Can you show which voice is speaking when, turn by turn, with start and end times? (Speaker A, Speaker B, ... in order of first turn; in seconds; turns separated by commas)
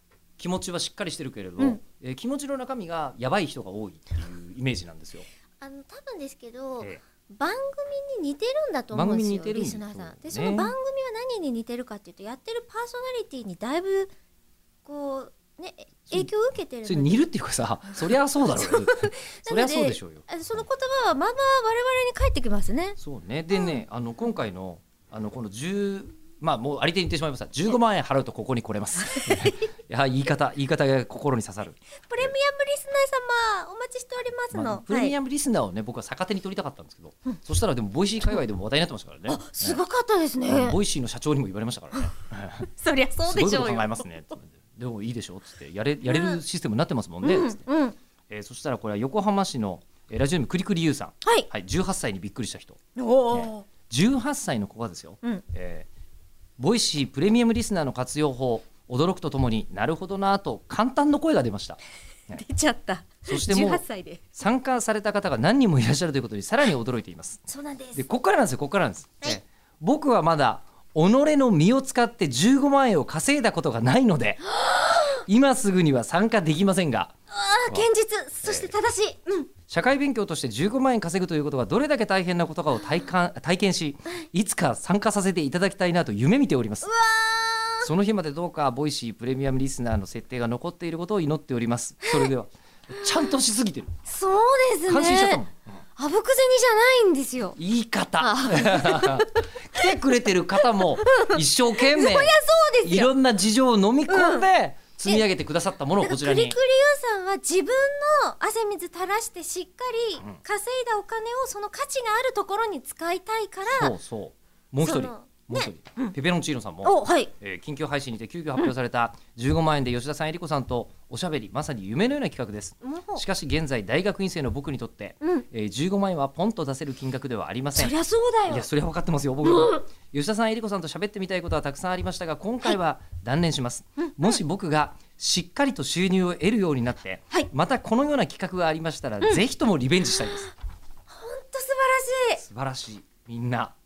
Speaker A: 0.4-5.2, Speaker B: 5.6-14.1, Speaker A: 8.9-10.7, Speaker B: 14.8-17.2, Speaker A: 16.8-20.6, Speaker B: 18.5-23.0, Speaker A: 23.0-32.3, Speaker B: 23.5-23.8, Speaker B: 29.1-29.6, Speaker B: 32.1-35.1, Speaker A: 34.5-39.8, Speaker B: 39.3-40.8, Speaker A: 40.5-42.7, Speaker B: 42.6-44.0, Speaker A: 43.2-47.6, Speaker B: 46.0-46.4, Speaker B: 47.2-47.9, Speaker A: 48.3-52.8, Speaker B: 53.0-53.6, Speaker A: 53.3-55.9, Speaker A: 56.6-62.4, Speaker B: 62.3-64.3, Speaker A: 63.3-74.5, Speaker B: 67.5-68.0, Speaker B: 74.5-75.2, Speaker A: 75.1-77.1, Speaker B: 77.3-79.5, Speaker A: 78.4-78.7, Speaker A: 79.7-86.9, Speaker B: 86.8-87.9, Speaker A: 87.8-93.9, Speaker B: 94.1-95.4, Speaker A: 94.9-95.8, Speaker B: 96.0-97.6, Speaker A: 97.5-106.6, Speaker B: 98.2-99.9, Speaker B: 100.5-103.1, Speaker B: 104.1-104.4, Speaker B: 106.0-113.9, Speaker A: 113.7-127.9, Speaker B: 114.8-116.1, Speaker B: 116.8-117.3, Speaker B: 122.8-123.2, Speaker B: 127.8-128.7, Speaker A: 128.5-140.5, Speaker B: 129.4-129.8, Speaker B: 140.2-140.5, Speaker B: 141.1-142.4, Speaker A: 142.4-143.7